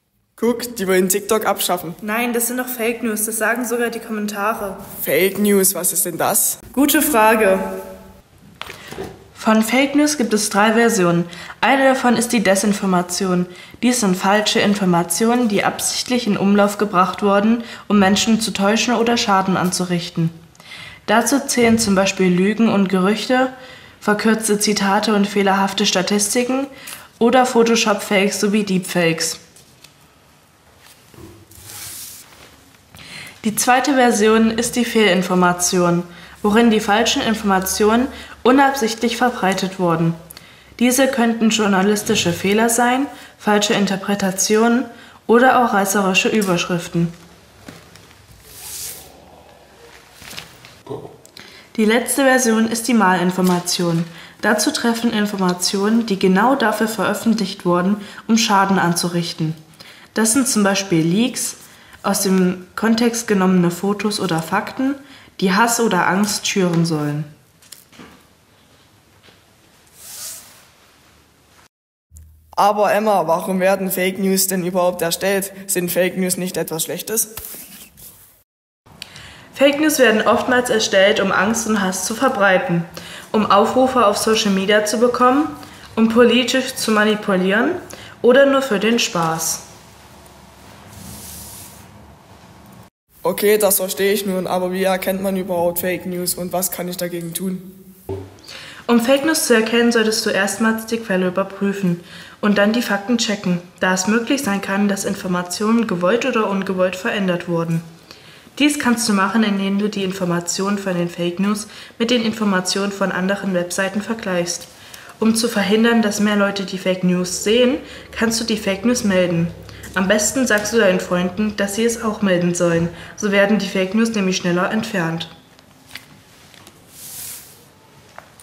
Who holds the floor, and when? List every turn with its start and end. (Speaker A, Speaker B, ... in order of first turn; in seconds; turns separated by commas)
Speaker A: 0.4-2.0, Speaker B: 2.0-4.9, Speaker A: 5.0-6.6, Speaker B: 6.7-7.8, Speaker B: 9.3-20.4, Speaker B: 21.1-29.4, Speaker B: 33.4-40.2, Speaker B: 40.8-47.1, Speaker B: 51.7-59.6, Speaker B: 60.1-67.3, Speaker A: 72.6-77.3, Speaker B: 79.5-89.7, Speaker A: 93.2-97.8, Speaker B: 98.9-107.9, Speaker B: 108.5-125.3